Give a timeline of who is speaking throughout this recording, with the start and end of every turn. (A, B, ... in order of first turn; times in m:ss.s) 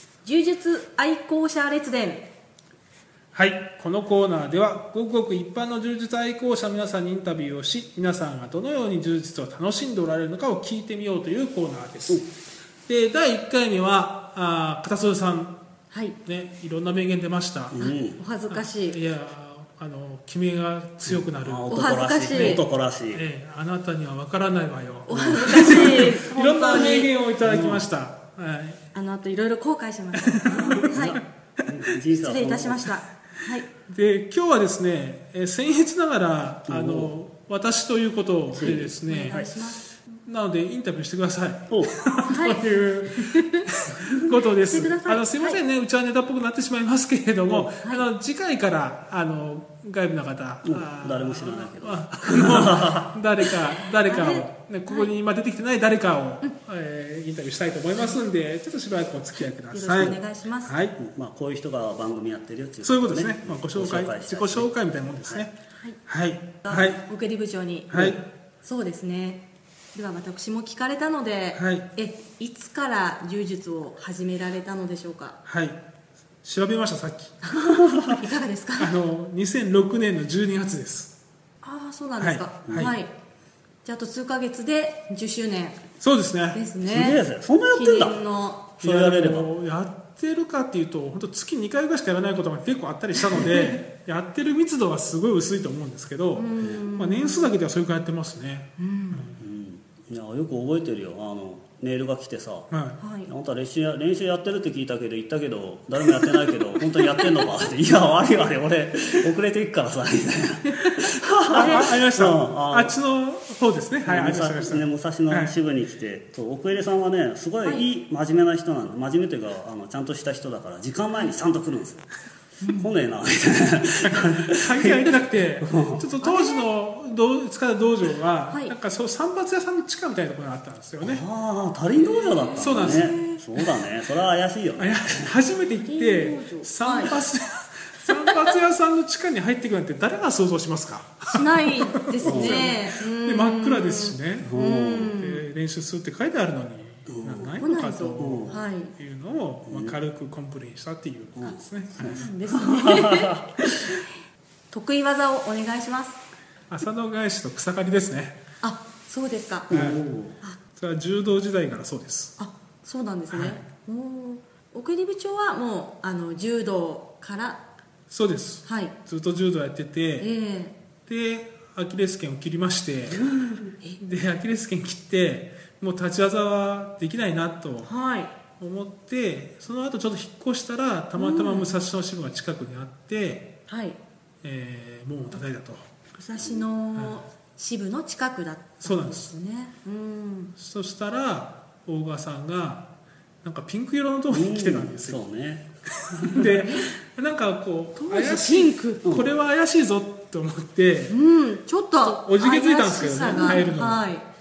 0:00.2-0:02.3 A
0:03.3-0:12.3 B
0:12.9-0:15.6 B
0:15.9-0:16.2 A
0:16.2-0:17.8 B
0:17.7-0:18.2 C
0:17.8-0:19.0 A
0:18.5-0:22.6 B
0:21.1-0:23.2 C
0:21.7-0:22.6 A
0:23.1-0:28.8 B
0:25.1-0:27.1 A
0:25.1-0:26.0 C
0:27.4-0:27.8 C
0:28.9-0:31.2 A
0:30.2-0:31.8 B
0:30.9-0:33.0 C
0:32.2-0:33.7 A
0:33.9-1:01.0 B
0:36.7-0:37.2 C
0:38.6-0:39.5 C
0:39.0-0:39.8 A
0:42.2-0:43.7 A
0:44.6-0:45.6 A
0:47.5-0:47.7 C
0:50.6-0:53.2 C
0:54.0-0:55.1 A
0:58.0-0:58.2 A
0:59.4-1:00.8 A
1:01.0-1:05.5 C
1:02.8-1:05.5 B
1:06.1-1:07.0 B
1:06.6-1:08.0 A
1:07.9-1:08.2 B
1:07.9-1:08.2 C
1:08.6-1:09.4 A
1:10.0-1:15.4 A
1:11.6-1:11.9 B
1:15.4-1:15.8 B
1:16.4-1:17.4 B
1:17.4-1:18.9 A
1:18.8-1:21.1 B
1:21.6-1:23.1 A
1:22.2-1:22.9 B
1:22.7-1:22.9 C
1:23.8-1:25.8 A
1:26.0-1:26.6 B
1:26.5-1:28.7 A
1:26.9-1:28.2 C
1:28.8-1:29.5 C
1:28.8-1:39.4 B
1:36.4-1:37.6 A
1:36.6-1:36.9 C
1:38.8-1:39.3 A
1:39.4-1:42.7 C
1:42.7-1:43.0 B
1:43.0-1:43.3 A
1:43.3-1:52.9 C
1:47.1-1:47.7 A
1:50.8-1:51.9 A
1:51.5-1:55.5 B
1:54.1-2:02.1 C
2:02.6-2:02.9 A
2:02.8-2:06.0 C
2:04.0-2:11.2 B
2:06.2-2:06.7 A
2:11.0-2:15.3 C
2:12.0-2:13.6 A
2:12.6-2:13.2 B
2:14.8-2:24.5 B
2:15.6-2:17.1 A
2:18.2-2:18.6 A
2:21.3-2:25.4 A
2:22.2-2:22.8 C
2:24.5-2:25.1 C
2:25.0-2:32.3 B
2:27.1-2:27.6 C
2:27.6-2:28.9 A
2:28.2-2:28.6 C
2:29.7-2:30.0 C
2:31.4-2:33.5 C
2:32.0-2:34.0 A
2:34.7-2:36.2 A
2:36.7-2:38.4 B
2:38.6-2:39.7 A
2:39.7-2:40.4 C
2:39.7-2:40.0 B
2:40.7-2:42.4 B
2:42.4-2:47.6 A
2:43.3-2:43.6 B
2:48.1-2:50.3 B
2:48.6-2:48.9 A
2:50.2-2:50.8 A
2:51.1-2:53.3 B
2:54.0-2:57.9 B
2:57.8-2:58.3 A
2:58.6-3:03.5 B
3:01.2-3:01.7 A
3:03.7-3:04.0 A
3:04.4-3:05.9 B
3:06.2-3:10.5 A
3:06.4-3:06.7 C
3:07.0-3:07.2 B
3:08.8-3:09.3 B
3:10.6-3:12.9 B
3:13.4-3:15.2 B
3:14.3-3:16.6 C
3:16.0-3:21.2 B
3:18.0-3:19.0 A
3:21.1-3:24.2 A
3:22.0-3:24.1 B
3:23.3-3:23.6 C